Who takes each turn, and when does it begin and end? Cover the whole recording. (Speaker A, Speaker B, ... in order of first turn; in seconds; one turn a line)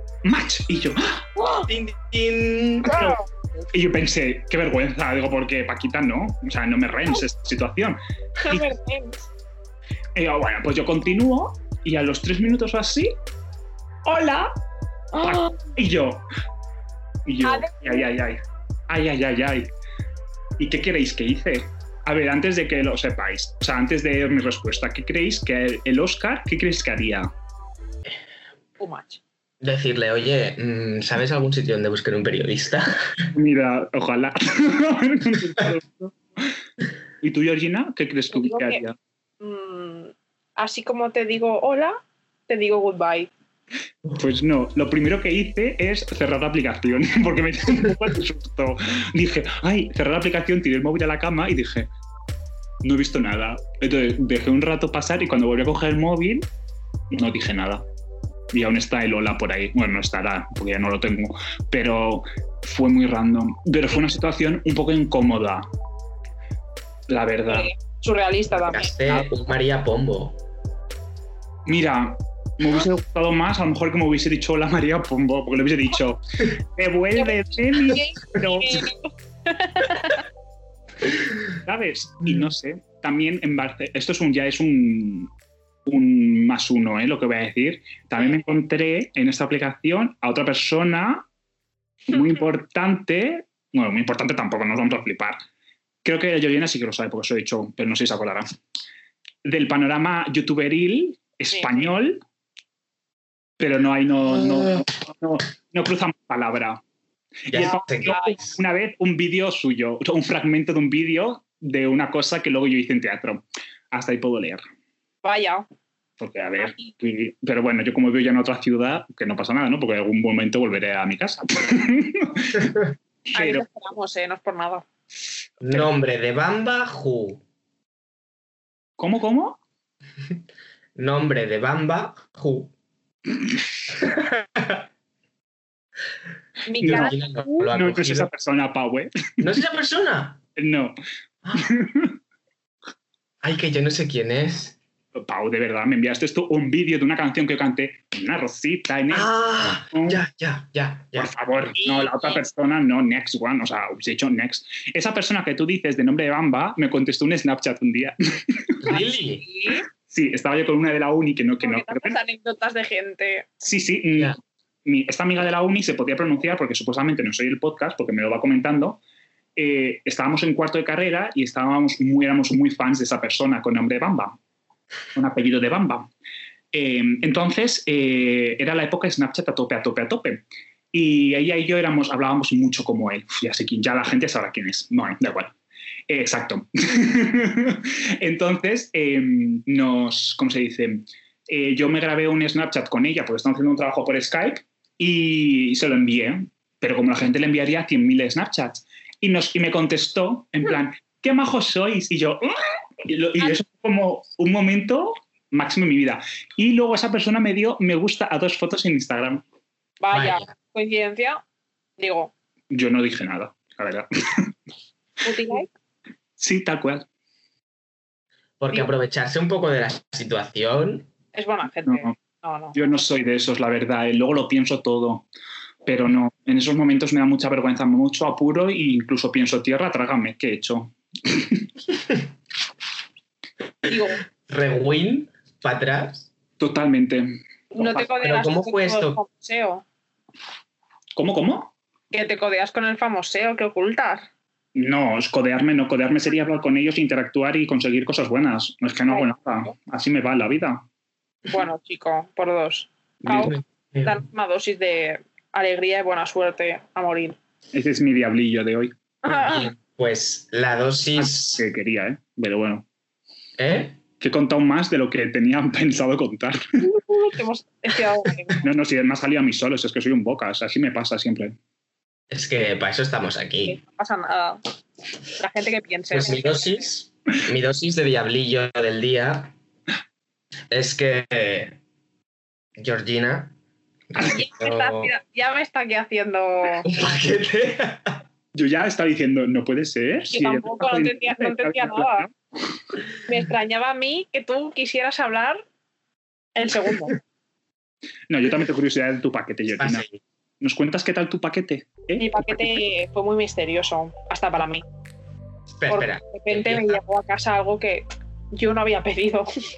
Speaker A: 0.2-1.3
Speaker B: 1.4-1.7
Speaker C: 1.7-3.0
Speaker B: 2.8-3.3
Speaker A: 2.9-3.2
Speaker A: 3.7-8.7
Speaker B: 8.4-9.3
Speaker A: 10.1-13.2
Speaker A: 14.1-14.4
Speaker B: 15.1-15.7
Speaker A: 15.2-16.2
Speaker A: 17.2-19.7
Speaker B: 17.4-18.1
Speaker A: 20.6-27.3
Speaker B: 28.8-29.2
Speaker C: 29.6-33.3
Speaker A: 33.3-36.4
Speaker A: 37.2-39.0
Speaker B: 38.3-38.8
Speaker B: 39.4-43.3
Speaker A: 44.1-51.9
Speaker A: 52.8-56.5
Speaker A: 57.1-57.8
Speaker A: 58.5-65.7
Speaker A: 67.1-67.7
Speaker B: 67.5-68.9
Speaker C: 68.6-70.4
Speaker A: 71.7-78.9
Speaker B: 77.1-80.2
Speaker A: 81.5-85.3
Speaker A: 85.8-91.3
Speaker A: 92.1-95.4
Speaker A: 96.0-98.5
Speaker A: 99.4-102.2
Speaker B: 101.5-101.9
Speaker A: 103.6-106.8
Speaker A: 107.5-114.6
Speaker C: 107.5-108.6
Speaker B: 107.5-108.4
Speaker B: 115.2-115.7
Speaker A: 116.2-123.6
Speaker B: 116.6-116.9
Speaker B: 123.3-124.8
Speaker C: 125.6-127.4
Speaker A: 129.0-129.6
Speaker C: 130.9-132.7
Speaker C: 133.9-134.8
Speaker B: 136.7-137.7
Speaker A: 136.8-137.1
Speaker C: 136.8-138.3
Speaker A: 137.7-139.1
Speaker C: 139.4-140.4
Speaker A: 140.6-140.9
Speaker A: 141.5-142.1
Speaker C: 143.4-144.8
Speaker A: 145.1-150.2
Speaker C: 149.1-151.3
Speaker A: 151.2-158.8
Speaker B: 151.8-152.4
Speaker C: 158.8-159.4
Speaker B: 158.9-159.8
Speaker A: 160.1-162.2
Speaker B: 161.6-163.5
Speaker A: 163.6-169.0
Speaker A: 169.6-174.3
Speaker A: 175.1-176.1
Speaker A: 176.7-185.5
Speaker A: 186.1-209.4
Speaker B: 210.0-211.4
Speaker C: 210.1-210.5
Speaker B: 212.0-212.3
Speaker A: 212.7-214.5
Speaker B: 215.2-215.7
Speaker A: 216.4-217.0
Speaker C: 218.6-221.1
Speaker B: 221.3-222.8
Speaker A: 221.8-222.1
Speaker A: 222.7-225.3
Speaker A: 225.8-231.7
Speaker B: 233.9-234.2
Speaker C: 234.5-236.3
Speaker A: 236.6-238.1
Speaker B: 237.7-239.8
Speaker C: 238.1-239.2
Speaker A: 241.1-241.7
Speaker B: 242.1-244.3
Speaker A: 244.7-250.8
Speaker B: 251.5-257.4
Speaker C: 253.2-254.2
Speaker A: 257.7-258.9
Speaker B: 259.2-259.7
Speaker C: 259.3-261.6
Speaker A: 261.1-262.8
Speaker C: 263.6-264.0
Speaker A: 264.2-266.6
Speaker B: 266.8-268.6
Speaker A: 268.6-271.5
Speaker C: 272.3-273.8
Speaker B: 273.6-274.6
Speaker B: 275.4-276.9
Speaker C: 276.1-279.5
Speaker C: 280.7-281.8
Speaker C: 282.8-283.6
Speaker C: 284.1-285.1
Speaker B: 284.2-286.9
Speaker C: 286.8-288.2
Speaker A: 288.5-292.3
Speaker B: 290.3-292.3
Speaker B: 293.2-295.6
Speaker B: 296.6-297.2
Speaker A: 298.3-300.1
Speaker C: 299.8-300.2
Speaker A: 300.6-302.8
Speaker B: 302.2-304.8
Speaker C: 305.7-307.0
Speaker B: 305.9-309.5